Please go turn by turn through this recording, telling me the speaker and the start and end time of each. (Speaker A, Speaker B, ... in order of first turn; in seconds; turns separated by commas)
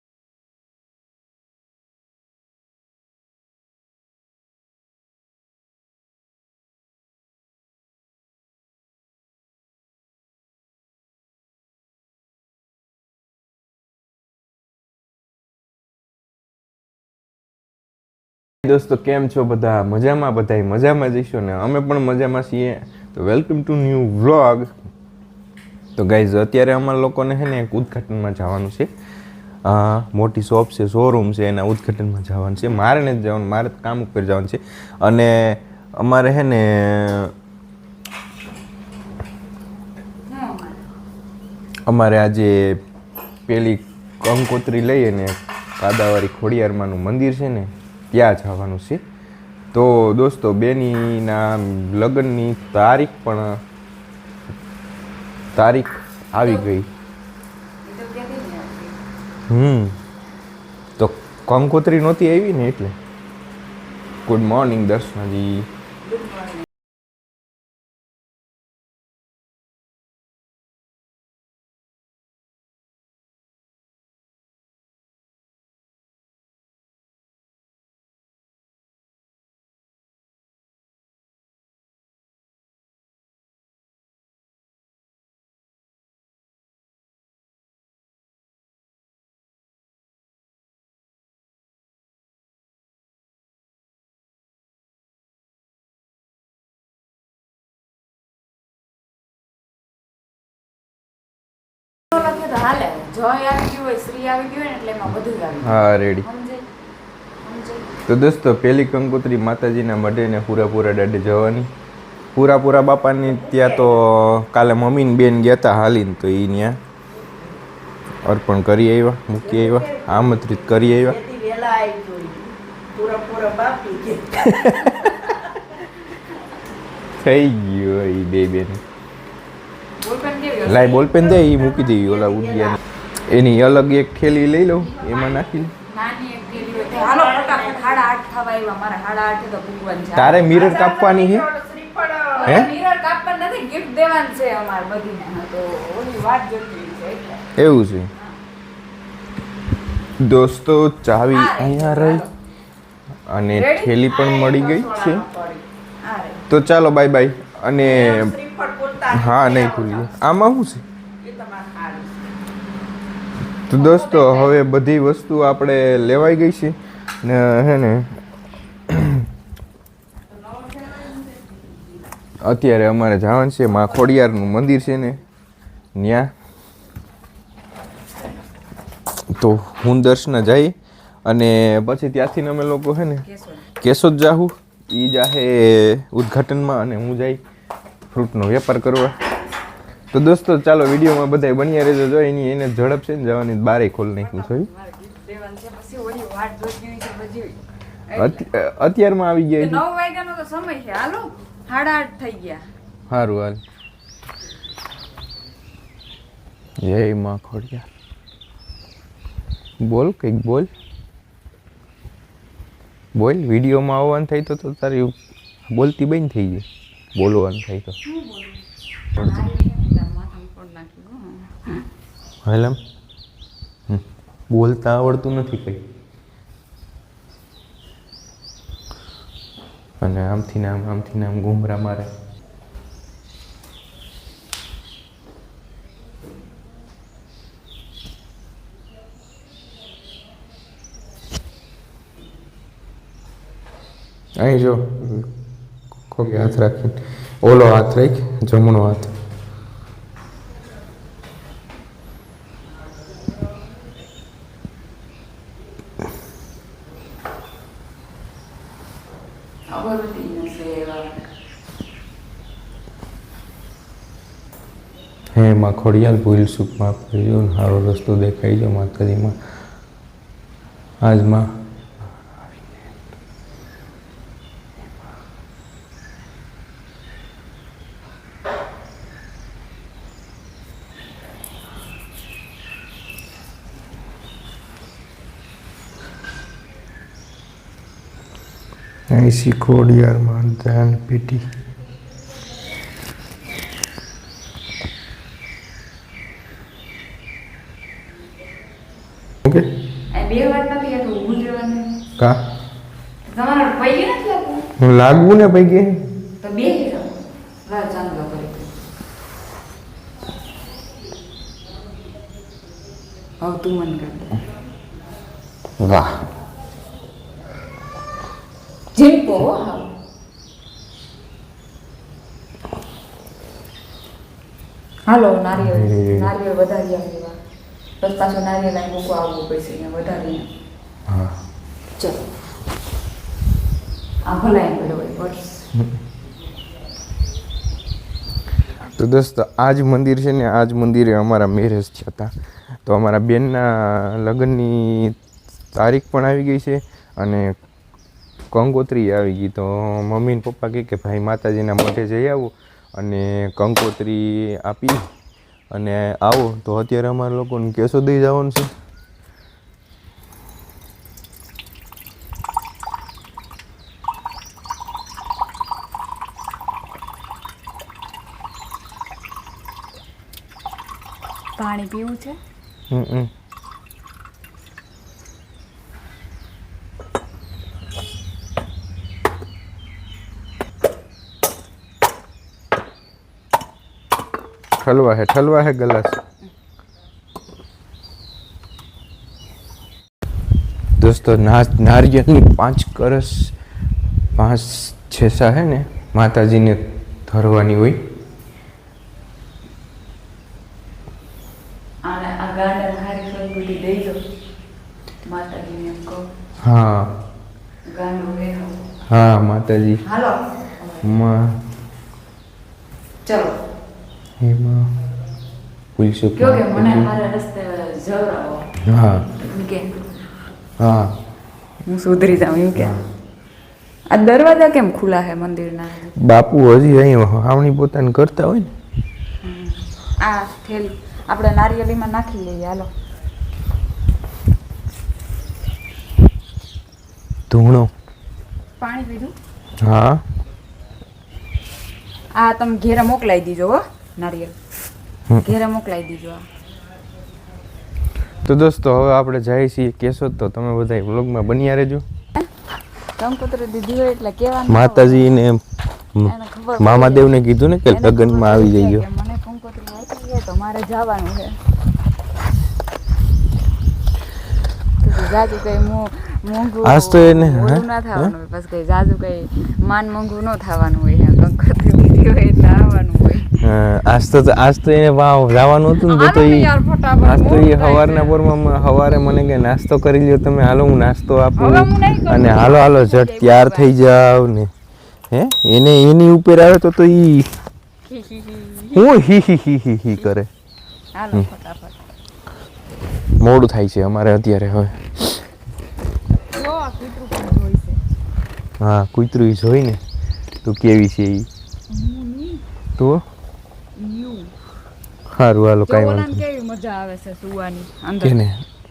Speaker A: 18.6-24.7, Speaker A: 25.9-28.9, Speaker A: 29.6-37.3, Speaker B: 40.3-40.8, Speaker A: 41.9-42.8, Speaker A: 43.5-49.0, Speaker A: 49.7-53.6, Speaker A: 55.5-56.9, Speaker B: 57.8-59.0, Speaker A: 59.5-60.0, Speaker A: 61.0-63.0, Speaker A: 64.2-65.7, Speaker C: 66.0-66.5, Speaker C: 102.1-102.7, Speaker B: 102.6-106.7, Speaker A: 105.6-106.2, Speaker B: 107.5-107.9, Speaker A: 108.0-111.7, Speaker A: 112.3-116.8, Speaker A: 118.2-121.2, Speaker C: 121.2-124.5, Speaker A: 124.3-125.3, Speaker A: 127.2-128.8, Speaker B: 130.0-131.3, Speaker A: 130.6-135.7, Speaker B: 135.9-140.8, Speaker C: 136.5-138.1, Speaker A: 140.1-141.5, Speaker C: 140.5-142.7, Speaker B: 142.3-147.4, Speaker A: 142.4-142.7, Speaker A: 147.6-148.1, Speaker A: 150.2-152.3, Speaker B: 151.3-152.2, Speaker A: 153.3-155.3, Speaker B: 153.5-153.9, Speaker C: 154.1-155.6, Speaker B: 156.0-156.4, Speaker A: 156.5-160.8, Speaker C: 158.0-159.9, Speaker C: 161.2-162.1, Speaker A: 163.7-168.2, Speaker C: 163.8-164.5, Speaker A: 168.9-169.3, Speaker A: 172.4-175.2, Speaker A: 175.9-176.3, Speaker A: 179.3-187.4, Speaker B: 183.2-183.6, Speaker A: 188.1-189.2, Speaker A: 190.1-194.7, Speaker B: 194.2-197.6, Speaker B: 198.1-198.4, Speaker A: 198.1-199.8, Speaker B: 199.6-202.7, Speaker A: 203.1-203.6, Speaker A: 206.8-207.9, Speaker A: 209.8-210.7, Speaker A: 213.2-215.1, Speaker A: 215.7-218.0, Speaker B: 218.1-218.6, Speaker B: 219.3-221.9, Speaker A: 222.4-222.8, Speaker A: 223.9-225.8, Speaker A: 230.0-232.1, Speaker A: 244.4-245.3, Speaker A: 246.1-249.1, Speaker B: 259.7-261.1, Speaker A: 265.3-269.4, Speaker A: 271.0-271.5, Speaker A: 289.1-291.5, Speaker A: 299.4-299.7, Speaker B: 300.1-302.0, Speaker B: 303.3-304.6, Speaker A: 304.8-306.1, Speaker B: 306.4-308.7, Speaker B: 313.4-314.4, Speaker A: 315.8-316.3, Speaker B: 318.9-319.9, Speaker B: 325.1-327.4, Speaker A: 325.5-326.3, Speaker B: 328.0-330.5, Speaker A: 331.1-331.4, Speaker B: 334.3-335.7, Speaker A: 338.9-342.3, Speaker A: 342.9-345.2, Speaker A: 345.7-347.6, Speaker A: 348.5-355.1, Speaker A: 355.7-358.7, Speaker B: 371.6-372.4, Speaker A: 372.9-373.3, Speaker A: 384.8-386.2, Speaker A: 391.0-393.5, Speaker A: 394.4-398.0, Speaker B: 402.0-404.2, Speaker B: 405.2-406.3, Speaker A: 406.6-407.1, Speaker B: 407.9-408.8, Speaker A: 409.1-410.0, Speaker B: 410.0-411.0, Speaker A: 411.0-411.6, Speaker B: 413.2-413.6, Speaker A: 414.4-415.0, Speaker A: 416.0-417.1, Speaker B: 416.4-418.7, Speaker A: 418.8-419.4, Speaker B: 419.4-419.9, Speaker A: 420.8-421.2, Speaker B: 421.9-422.9, Speaker A: 422.8-423.0, Speaker B: 424.1-426.1, Speaker A: 426.1-428.7, Speaker B: 429.4-432.9, Speaker A: 437.5-437.9, Speaker B: 438.8-439.4, Speaker A: 439.8-440.2, Speaker B: 442.4-444.6, Speaker B: 445.4-446.4, Speaker A: 448.4-452.0, Speaker B: 453.2-455.3, Speaker A: 454.7-459.1, Speaker B: 456.5-457.3, Speaker B: 457.9-461.6, Speaker B: 465.0-473.6, Speaker A: 466.8-468.3, Speaker A: 473.6-484.7, Speaker B: 476.1-478.4, Speaker B: 481.6-483.9, Speaker A: 485.3-487.5, Speaker B: 488.1-489.0, Speaker A: 488.9-490.5, Speaker B: 491.1-492.0, Speaker A: 493.4-495.4, Speaker B: 496.5-498.0, Speaker A: 498.8-500.0, Speaker A: 500.6-501.5, Speaker B: 501.9-502.6, Speaker A: 503.0-503.2, Speaker B: 503.9-504.5, Speaker A: 505.3-506.4, Speaker B: 505.9-508.3, Speaker A: 508.2-508.6